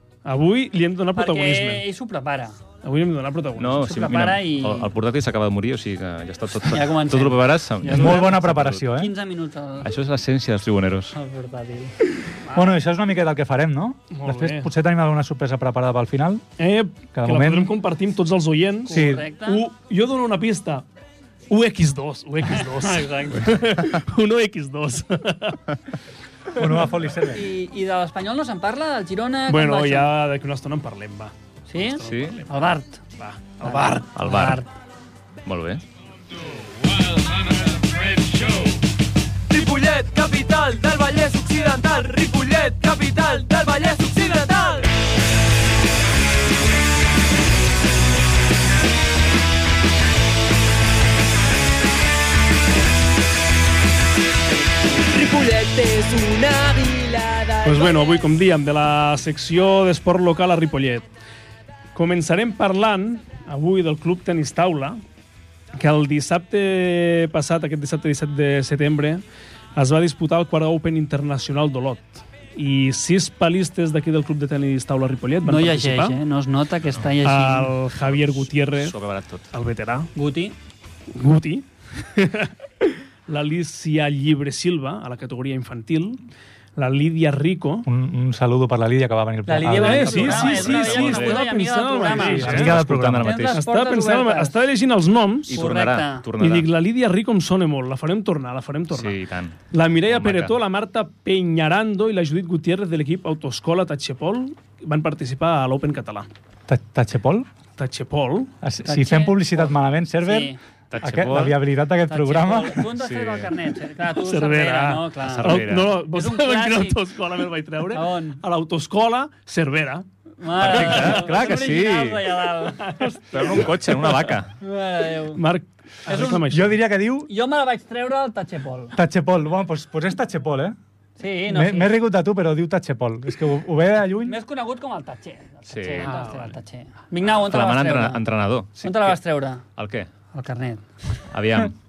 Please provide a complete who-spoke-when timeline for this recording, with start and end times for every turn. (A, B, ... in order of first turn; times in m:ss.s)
0:00.2-0:01.9 A
0:01.2-0:02.6 B
0:02.8-0:03.9 A
0:03.6-0:08.8 C
0:03.8-0:04.9 B
0:06.6-0:09.9 B
0:07.9-0:09.1 D
0:09.8-0:11.2 C
0:11.2-0:12.8 B
0:12.5-0:16.4 D
0:14.1-0:14.7 A
0:16.6-0:20.8 A
0:17.1-0:17.7 D
0:18.9-0:19.6 B
0:18.9-0:19.3 D
0:21.5-0:25.6 A
0:22.5-0:23.7 B
0:26.6-0:27.5 D
0:27.3-0:30.1 B
0:29.5-0:32.6 A
0:31.7-0:33.0 B
0:32.0-0:32.4 C
0:33.2-0:34.1 A
0:33.6-0:34.7 B
0:34.2-0:34.6 C
0:35.4-0:35.8 C
0:55.2-0:57.6 E
0:57.6-1:01.1 A
1:01.9-1:05.0 A
1:05.7-1:09.2 A
1:09.8-1:16.2 A
1:15.4-1:17.7 B
1:16.8-1:17.1 C
1:17.2-1:19.0 A
1:18.0-1:19.5 C
1:19.5-1:20.1 A
1:20.2-1:20.6 B
1:21.1-1:26.2 A
1:26.8-1:27.9 A
1:27.9-1:30.7 D
1:29.5-1:34.6 B
1:29.6-1:32.7 A
1:30.1-1:31.5 C
1:32.1-1:33.5 D
1:32.2-1:33.6 C
1:33.5-1:35.6 A
1:35.5-1:36.7 C
1:35.5-1:36.3 B
1:36.4-1:39.2 A
1:38.9-1:40.6 C
1:39.7-1:46.3 A
1:46.7-1:47.5 D
1:47.8-1:48.5 A
1:48.6-1:52.9 D
1:48.8-1:50.6 B
1:50.9-1:51.6 C
1:52.1-1:57.0 B
1:52.9-1:53.5 C
1:54.2-2:00.1 A
1:55.2-1:56.0 C
1:57.9-1:58.4 B
2:00.4-2:03.6 B
2:00.6-2:02.5 C
2:00.6-2:01.2 A
2:02.8-2:03.2 A
2:03.3-2:04.6 C
2:03.8-2:04.3 A
2:04.6-2:05.4 B
2:05.3-2:06.8 A
2:06.1-2:06.5 B
2:06.2-2:07.3 D
2:07.3-2:09.0 B
2:08.9-2:10.8 D
2:11.2-2:12.0 B
2:11.5-2:14.4 D
2:14.2-2:18.2 B
2:15.7-2:16.4 C
2:16.0-2:16.5 A
2:17.2-2:19.2 C
2:18.8-2:19.6 B
2:19.8-2:20.1 C
2:20.3-2:20.8 B
2:21.3-2:21.8 C